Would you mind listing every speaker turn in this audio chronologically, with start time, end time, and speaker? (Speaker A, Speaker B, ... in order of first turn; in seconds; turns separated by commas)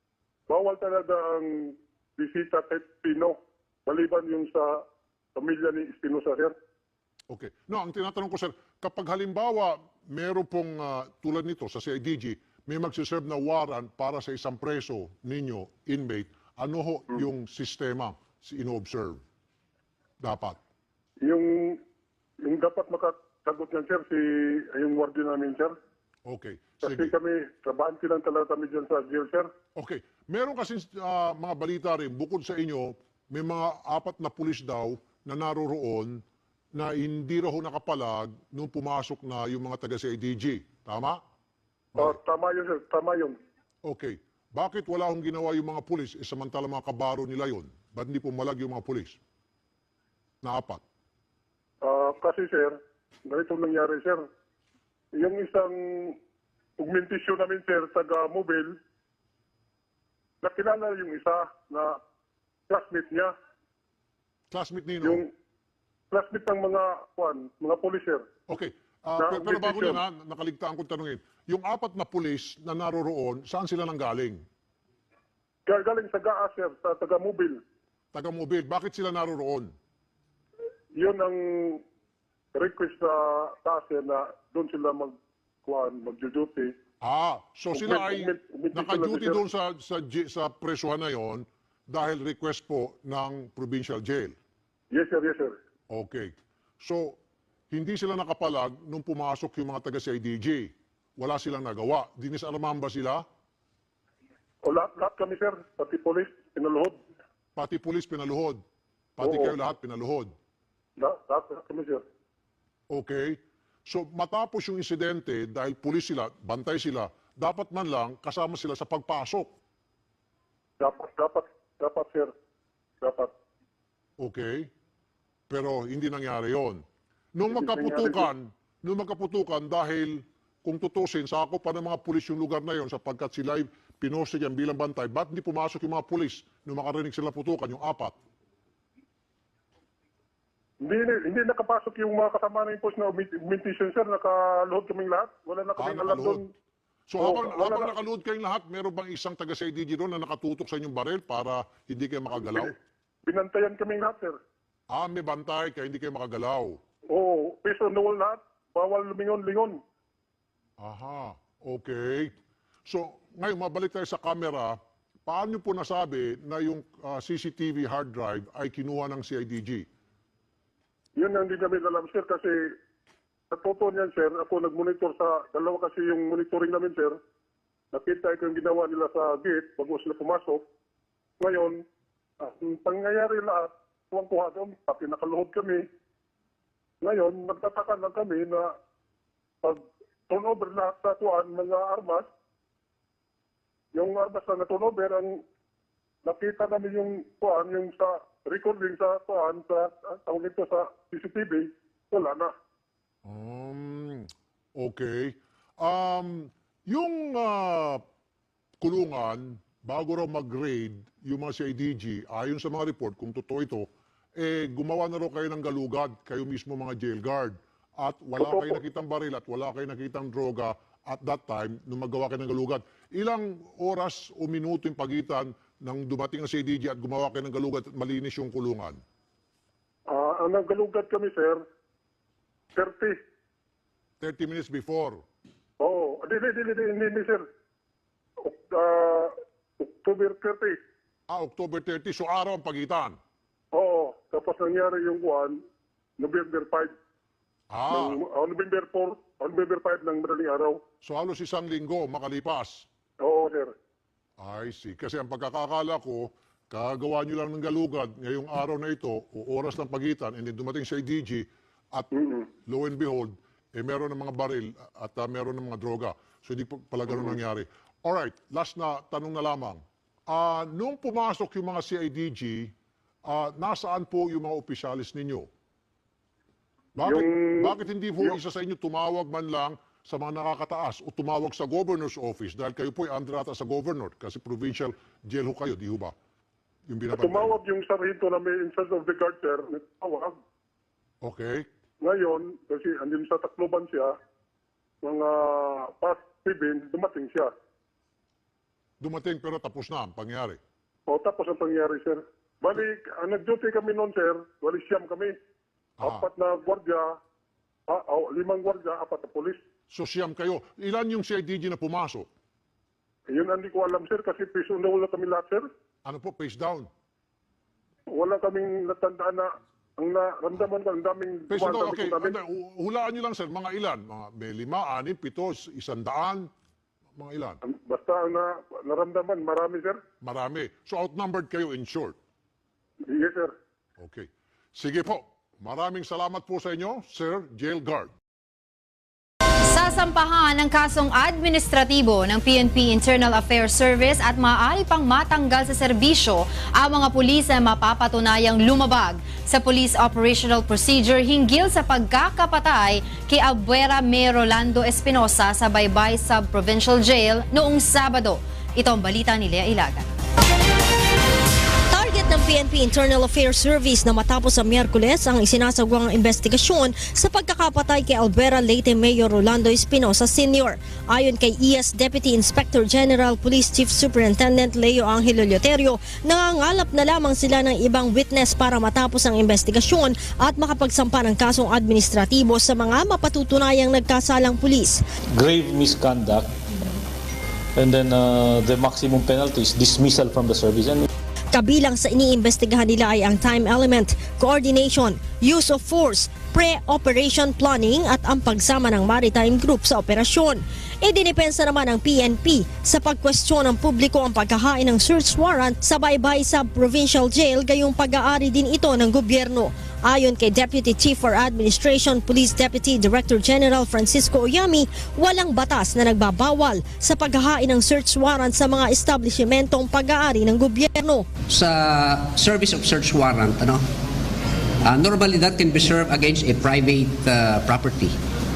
Speaker A: 0.5-6.5, Speaker B: 7.3-19.2, Speaker B: 20.2-20.6, Speaker A: 21.2-21.8, Speaker A: 22.4-25.7, Speaker B: 26.3-27.1, Speaker A: 26.8-29.5, Speaker B: 29.8-36.2, Speaker B: 36.7-41.2, Speaker A: 42.0-43.4, Speaker B: 43.9-49.2, Speaker B: 50.4-50.8, Speaker A: 51.8-54.3, Speaker A: 55.1-56.2, Speaker A: 56.8-58.8, Speaker A: 60.4-62.0, Speaker A: 62.7-63.3, Speaker B: 64.5-65.2, Speaker A: 65.0-65.3, Speaker A: 66.1-68.3, Speaker B: 68.5-74.4, Speaker A: 69.2-70.0, Speaker A: 75.7-77.6, Speaker B: 78.1-79.7, Speaker A: 81.0-81.8, Speaker A: 82.5-86.8, Speaker B: 87.0-94.4, Speaker A: 87.8-89.4, Speaker A: 94.9-95.6, Speaker B: 95.9-97.2, Speaker B: 97.7-103.2, Speaker A: 104.6-107.0, Speaker B: 107.6-108.6, Speaker B: 109.2-110.3, Speaker A: 109.2-109.5, Speaker A: 111.0-112.0, Speaker B: 112.9-119.5, Speaker A: 120.8-122.3, Speaker A: 123.0-123.3, Speaker B: 124.2-124.7, Speaker B: 125.5-126.8, Speaker B: 127.4-138.2, Speaker A: 127.5-128.3, Speaker A: 140.8-146.5, Speaker B: 145.8-146.4, Speaker B: 147.1-152.7, Speaker A: 147.2-147.9, Speaker A: 153.2-154.4, Speaker B: 154.9-156.8, Speaker A: 157.1-159.8, Speaker B: 160.8-162.3, Speaker B: 162.9-169.9, Speaker A: 171.2-172.8, Speaker A: 173.5-177.2, Speaker A: 177.9-180.7, Speaker A: 181.4-181.8, Speaker A: 182.4-185.8, Speaker A: 187.0-188.8, Speaker A: 189.6-192.3, Speaker A: 193.9-195.4, Speaker A: 196.2-202.5, Speaker B: 203.2-208.0, Speaker B: 208.8-229.0, Speaker A: 218.4-218.8, Speaker A: 230.1-231.6, Speaker A: 232.8-233.2, Speaker B: 234.2-235.2, Speaker A: 235.8-237.5, Speaker A: 238.4-240.8, Speaker B: 241.3-243.2, Speaker A: 243.7-245.6, Speaker A: 246.2-246.9, Speaker B: 247.7-248.2, Speaker A: 247.9-250.8, Speaker B: 251.0-252.8, Speaker A: 253.2-253.7, Speaker B: 254.4-262.1, Speaker A: 262.1-262.4, Speaker B: 262.7-272.7, Speaker B: 273.3-275.5, Speaker B: 277.0-286.1, Speaker A: 277.0-278.4, Speaker B: 286.9-287.5, Speaker A: 287.1-290.4, Speaker B: 291.2-291.7, Speaker A: 292.0-294.2, Speaker A: 295.0-297.5, Speaker B: 299.0-300.6, Speaker A: 301.1-305.3, Speaker B: 306.0-306.2, Speaker A: 306.0-307.2, Speaker A: 307.9-309.6, Speaker B: 309.9-312.3, Speaker A: 313.3-315.7, Speaker B: 316.1-316.9, Speaker A: 318.1-322.3, Speaker B: 321.5-326.5, Speaker B: 327.2-327.6, Speaker A: 327.6-330.0, Speaker B: 330.2-332.1, Speaker A: 333.0-333.6, Speaker B: 334.0-338.1, Speaker C: 339.7-360.1, Speaker D: 361.9-385.0, Speaker E: 385.3-386.5, Speaker E: 387.8-391.1, Speaker D: 391.5-421.3, Speaker F: 421.5-423.8, Speaker F: 424.8-428.2